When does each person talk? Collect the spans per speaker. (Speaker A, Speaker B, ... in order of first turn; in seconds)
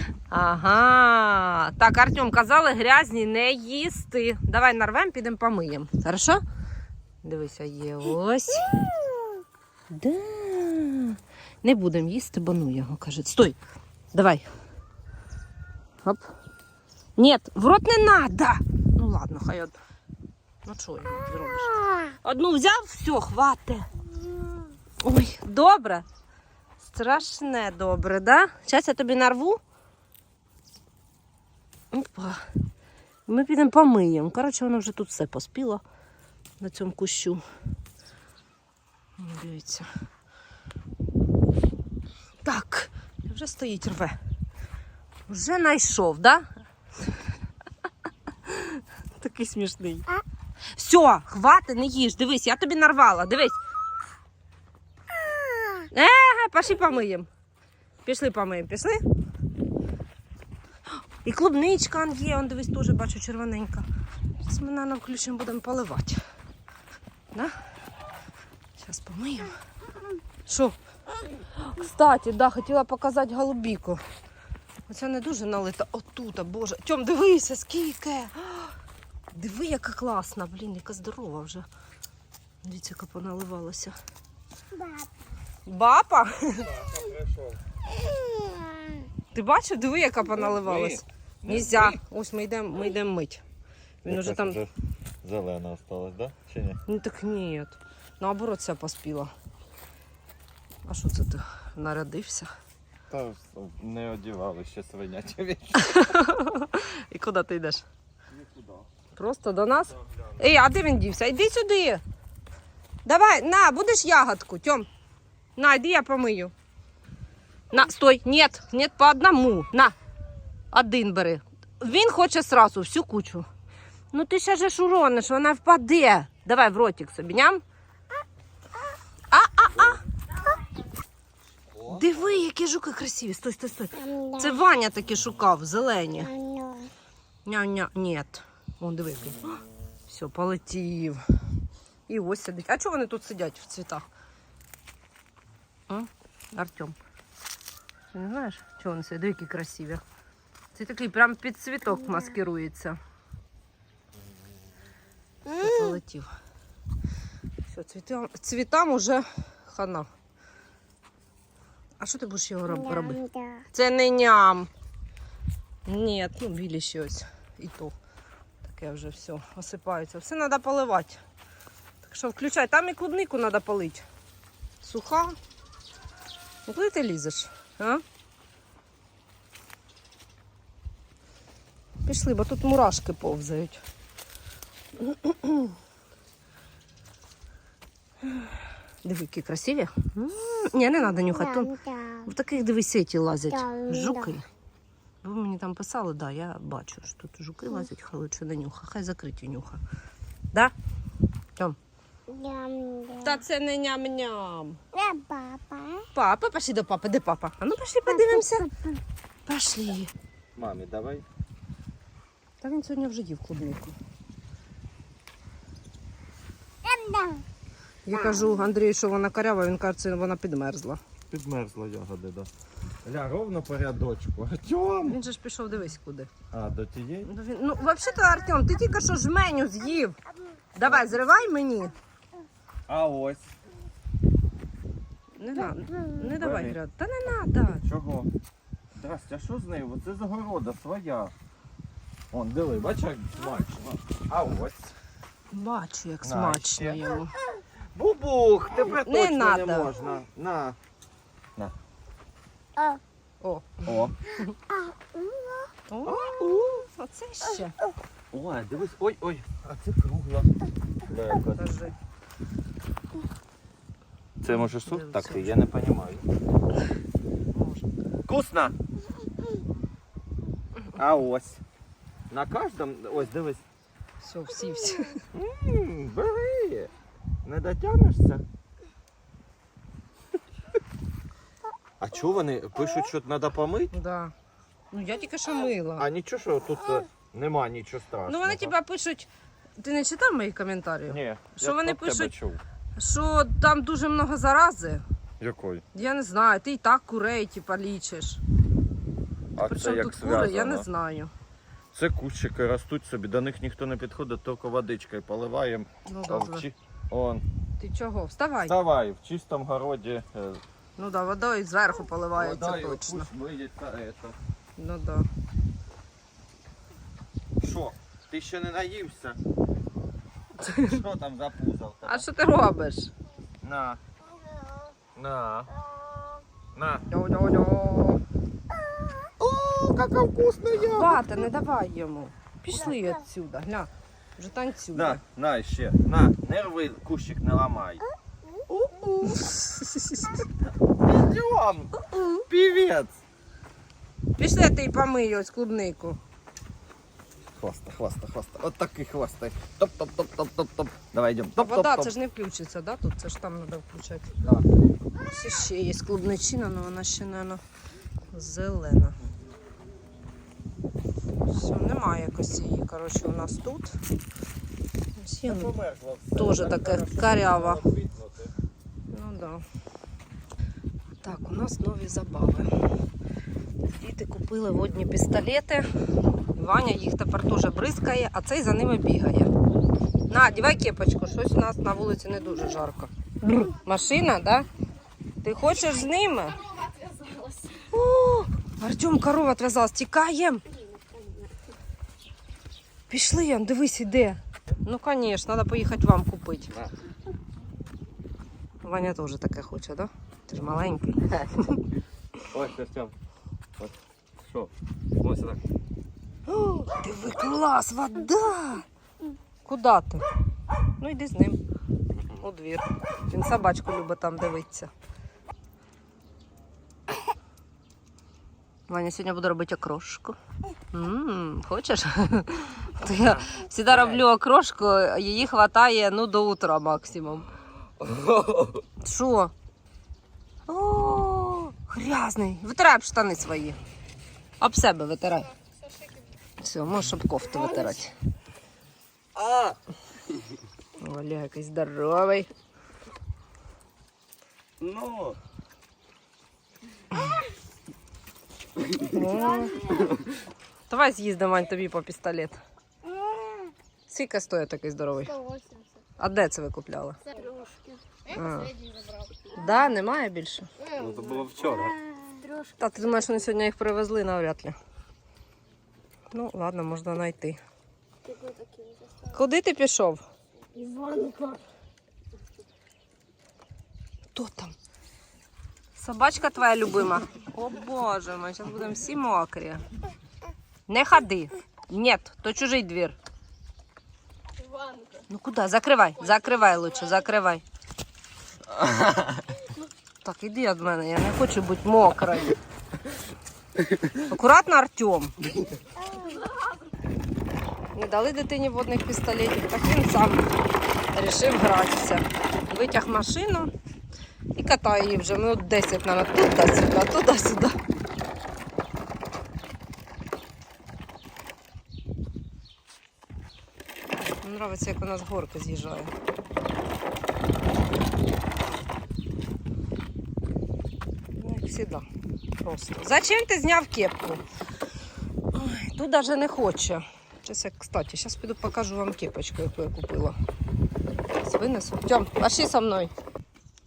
Speaker A: 0.3-6.4, 7.2-8.8, 9.9-13.6, 14.1-14.5, 17.2-19.8, 20.6-23.9, 25.0-26.1, 26.8-29.6, 31.9-32.4, 33.3-35.8, 36.6-37.4, 39.2-39.9, 42.4-44.2, 45.3-46.5, 48.5-50.1, 50.7-53.6, 55.9-57.3, 58.0-59.0, 61.2-63.9, 64.4-66.2, 68.8-69.5, 70.5-70.8, 71.6-74.0, 74.9-78.8, 79.3-81.7, 82.6-84.0, 85.7-86.8, 89.3-93.4, 94.0-94.6, 96.9-99.3, 100.9-102.5, 105.8-107.8, 109.2-112.0, 113.0-114.9, 115.6-116.5, 117.7-120.0, 120.7-123.5, 124.1-127.6, 129.3-130.0, 131.9-136.3, 137.4-139.6, 140.1-141.2, 142.1-144.1, 145.9-147.0, 148.1-150.0, 150.7-153.0, 155.5-156.3, 157.7-160.1, 162.0-163.2, 163.7-164.7, 165.8-167.9, 168.6-171.2, 172.0-174.1, 174.8-175.3, 176.7-178.0, 182.1-183.8, 185.0-185.7, 189.0-191.7, 192.3-194.4, 195.2-199.8, 203.2-204.8, 206.1-208.7, 209.5-210.1, 212.6-213.9, 218.1-221.0, 225.0-226.3, 227.2-230.2, 230.8-231.9, 235.4-237.8, 245.5-247.3, 249.1-249.9, 253.4-253.9, 255.9-257.8, 261.6-261.9, 264.5-265.6, 267.5-267.9, 274.2-275.2, 283.9-284.3, 284.9-286.1, 288.3-289.3, 289.8-292.3, 293.0-295.0, 295.9-298.4, 299.6-301.3, 306.1-306.7, 307.8-308.8, 311.0-313.3, 314.8-315.3, 320.6-321.0, 322.1-323.1, 327.1-328.2, 330.8-335.2, 339.3-340.4, 344.4-346.2, 351.6-354.3, 355.2-357.6, 358.3-359.2, 361.5-364.0, 365.2-365.7, 366.4-367.8, 369.1-369.6, 371.2-372.7, 373.8-375.9, 376.6-379.5, 380.3-384.7, 385.4-386.6, 387.9-390.6, 393.1-396.7, 398.8-401.8, 406.5-408.9, 409.7-410.2, 411.0-411.6, 412.4-414.9, 418.9-420.4, 420.9-427.5, 429.0-429.5, 430.7-433.8, 434.6-435.5, 436.6-438.1, 441.0-442.5, 449.0-449.9, 450.9-452.6, 454.1-455.4, 456.2-457.2, 458.3-458.8, 459.6-460.7, 462.8-464.8, 466.3-467.6, 469.3-470.2, 474.4-474.7, 476.0-479.9, 480.9-483.2, 485.3-487.6, 490.2-492.6, 494.1-495.4, 497.9-500.5, 501.1-503.7, 504.6-507.8, 514.4-516.1, 521.4-522.1, 522.6-524.4, 525.5-530.4, 531.4-533.1
Speaker B: 86.7-87.6, 90.3-92.0, 94.0-94.7, 95.2-96.8, 103.1-106.1, 108.3-108.9, 109.9-110.5, 129.7-130.0, 131.7-132.4, 210.6-211.3, 221.3-222.5, 223.0-225.2, 226.5-227.3, 230.8-231.1, 232.9-233.6, 236.3-236.8, 237.7-238.3, 238.9-241.3, 242.3-244.9, 246.2-250.8, 253.9-254.2, 256.1-256.9, 258.3-261.9, 264.4-266.3, 268.3-268.8, 270.9-271.6, 272.3-273.6, 275.3-276.9, 277.4-278.4, 282.0-283.9, 286.0-288.8, 291.1-292.6, 295.4-295.9, 299.6-300.9, 301.9-307.4, 308.6-310.6, 312.4-314.4, 317.6-319.4, 320.6-322.3, 323.6-324.0, 325.1-325.7, 326.7-327.1, 329.4-331.3, 334.9-338.0, 338.7-339.5, 340.8-343.2, 347.6-352.1, 354.4-354.7, 365.4-368.5, 402.5-403.1, 403.8-405.6, 423.9-424.2, 428.0-428.8, 439.4-439.8, 444.8-445.4, 460.9-462.0, 488.8-489.4
Speaker C: 134.0-134.6, 136.2-136.9, 162.7-163.7, 191.2-192.3, 193.5-194.3, 202.3-203.4, 204.9-206.1, 208.1-209.0, 216.8-217.4, 218.2-218.4, 235.7-236.1, 254.7-255.7, 386.8-387.9, 391.0-391.5, 455.3-455.9, 457.3-458.3, 458.9-459.3, 460.8-463.3, 468.2-469.4, 470.7-471.6, 484.7-485.2